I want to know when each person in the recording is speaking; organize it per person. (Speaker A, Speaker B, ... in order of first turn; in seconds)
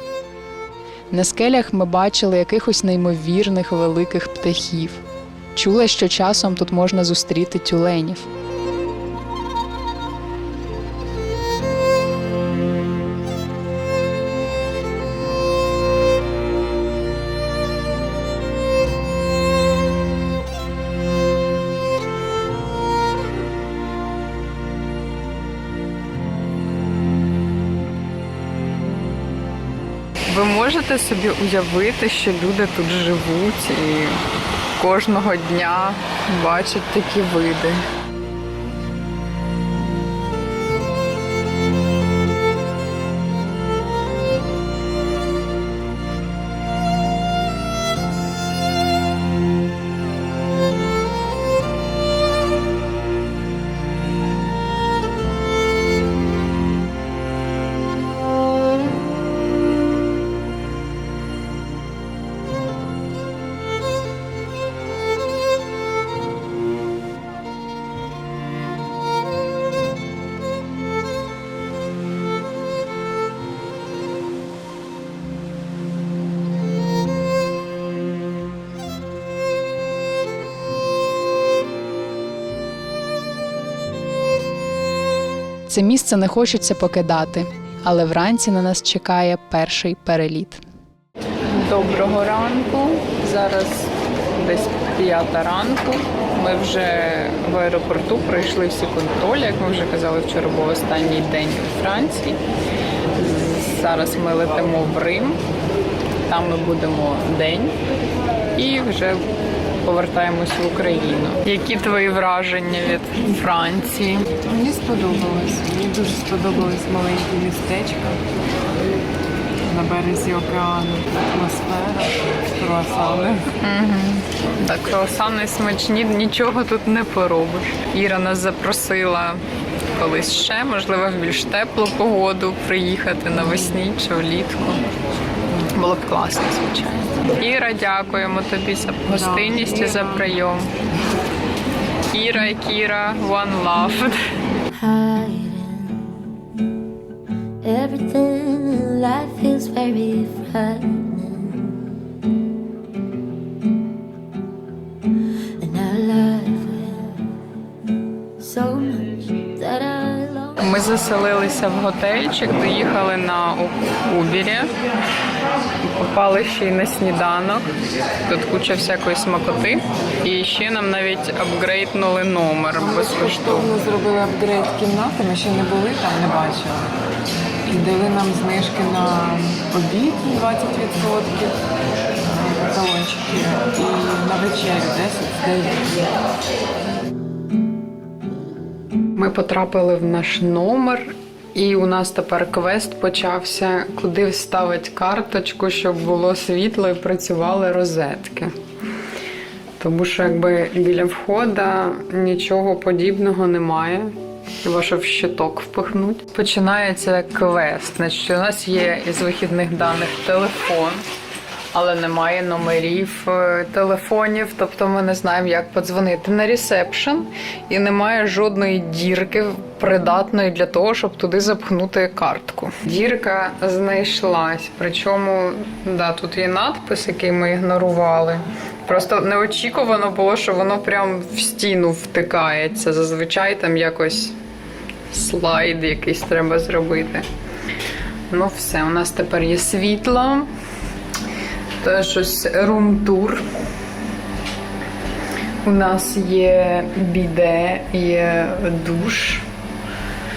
Speaker A: 1.1-5.0, 5.5-8.3, 85.7-90.6
Speaker B: 30.3-34.2, 34.8-37.8, 91.5-102.4, 103.2-105.4, 106.3-107.8, 108.5-109.3, 109.8-114.3, 123.6-129.4, 130.0-134.8, 135.5-140.7, 142.1-144.3, 160.6-164.7, 165.8-167.7, 168.3-173.7, 189.2-198.5, 199.8-211.0, 211.7-234.3, 235.1-237.3, 238.3-240.5, 241.8-243.4, 245.6-249.4
Speaker C: 114.5-118.2, 119.7-123.5, 139.1-140.4, 172.7-176.9, 177.7-181.6, 182.2-185.9
Speaker D: 144.8-146.2, 147.6-151.8, 155.6-157.3, 158.4-160.6